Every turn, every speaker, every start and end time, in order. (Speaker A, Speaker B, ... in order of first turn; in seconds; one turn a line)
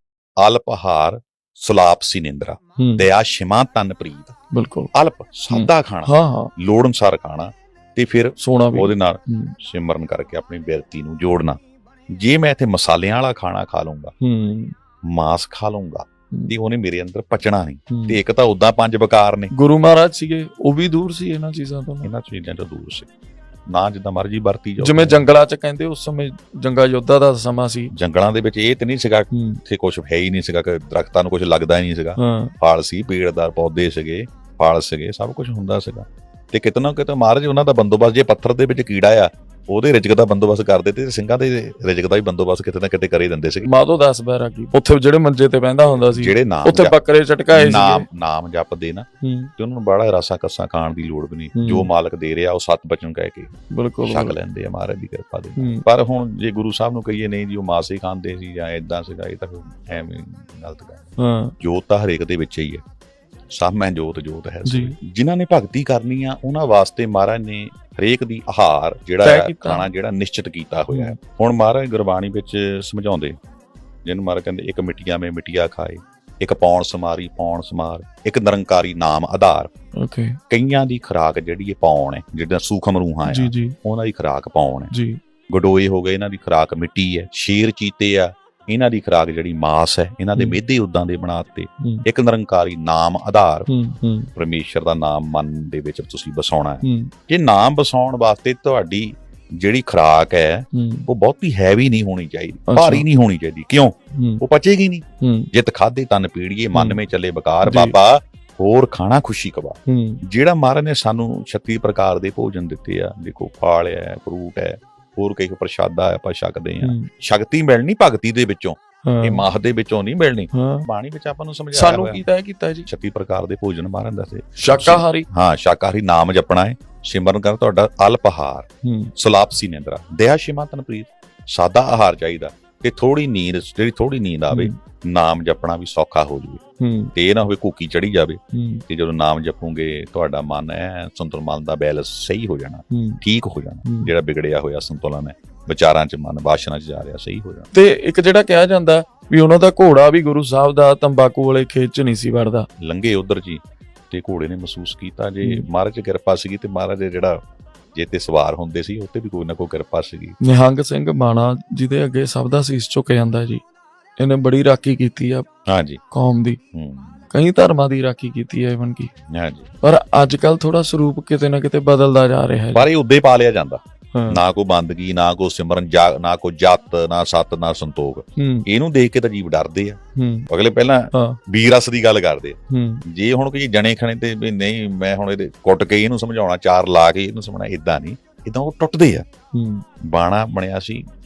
Speaker A: 0.4-4.3
Speaker B: 2.8-3.1
Speaker B: 4.5-4.9
Speaker A: 4.9-11.6
Speaker B: 5.5-6.5
Speaker B: 8.4-9.6
Speaker A: 12.1-14.1
Speaker B: 14.2-14.8
Speaker A: 15.0-19.5
Speaker B: 17.9-18.2
Speaker B: 19.5-22.1
Speaker A: 22.0-23.1
Speaker A: 23.7-25.2
Speaker B: 24.8-27.9
Speaker A: 27.9-43.7
Speaker B: 29.3-29.6
Speaker B: 32.2-32.5
Speaker B: 43.6-48.1
Speaker A: 46.0-47.0
Speaker A: 47.5-53.5
Speaker B: 49.2-49.5
Speaker B: 51.5-51.9
Speaker B: 53.7-54.4
Speaker A: 54.0-62.8
Speaker B: 55.6-55.9
Speaker B: 61.2-61.5
Speaker A: 63.5-73.4
Speaker B: 64.7-64.9
Speaker B: 69.2-69.9
Speaker B: 70.9-71.2
Speaker A: 74.0-79.7
Speaker B: 80.0-80.4
Speaker A: 80.5-84.9
Speaker B: 83.3-83.8
Speaker B: 84.9-85.2
Speaker A: 85.5-93.7
Speaker B: 90.3-90.6
Speaker B: 93.7-94.3
Speaker A: 94.3-122.2
Speaker B: 96.8-97.1
Speaker B: 100.7-101.1
Speaker B: 102.7-103.1
Speaker B: 104.2-104.4
Speaker B: 105.2-105.5
Speaker B: 107.7-108.0
Speaker B: 109.9-110.2
Speaker B: 116.8-117.1
Speaker B: 119.0-119.5
Speaker B: 120.5-120.9
Speaker B: 121.7-122.9
Speaker A: 122.9-136.6
Speaker B: 124.6-125.3
Speaker B: 128.8-129.1
Speaker B: 134.5-134.8
Speaker B: 136.8-137.1
Speaker A: 137.2-147.7
Speaker B: 138.5-138.8
Speaker B: 142.9-143.2
Speaker B: 147.7-152.7
Speaker A: 152.8-157.4
Speaker A: 157.9-160.4
Speaker B: 160.4-163.6
Speaker B: 164.2-165.5
Speaker A: 165.7-166.0
Speaker B: 166.1-166.6
Speaker A: 166.7-167.2
Speaker B: 167.3-169.1
Speaker A: 169.3-169.7
Speaker B: 169.8-172.8
Speaker A: 172.8-180.0
Speaker B: 174.1-174.4
Speaker B: 178.4-178.7
Speaker B: 180.2-180.5
Speaker A: 180.5-189.2
Speaker B: 182.7-183.0
Speaker B: 189.5-189.8
Speaker A: 190.0-191.0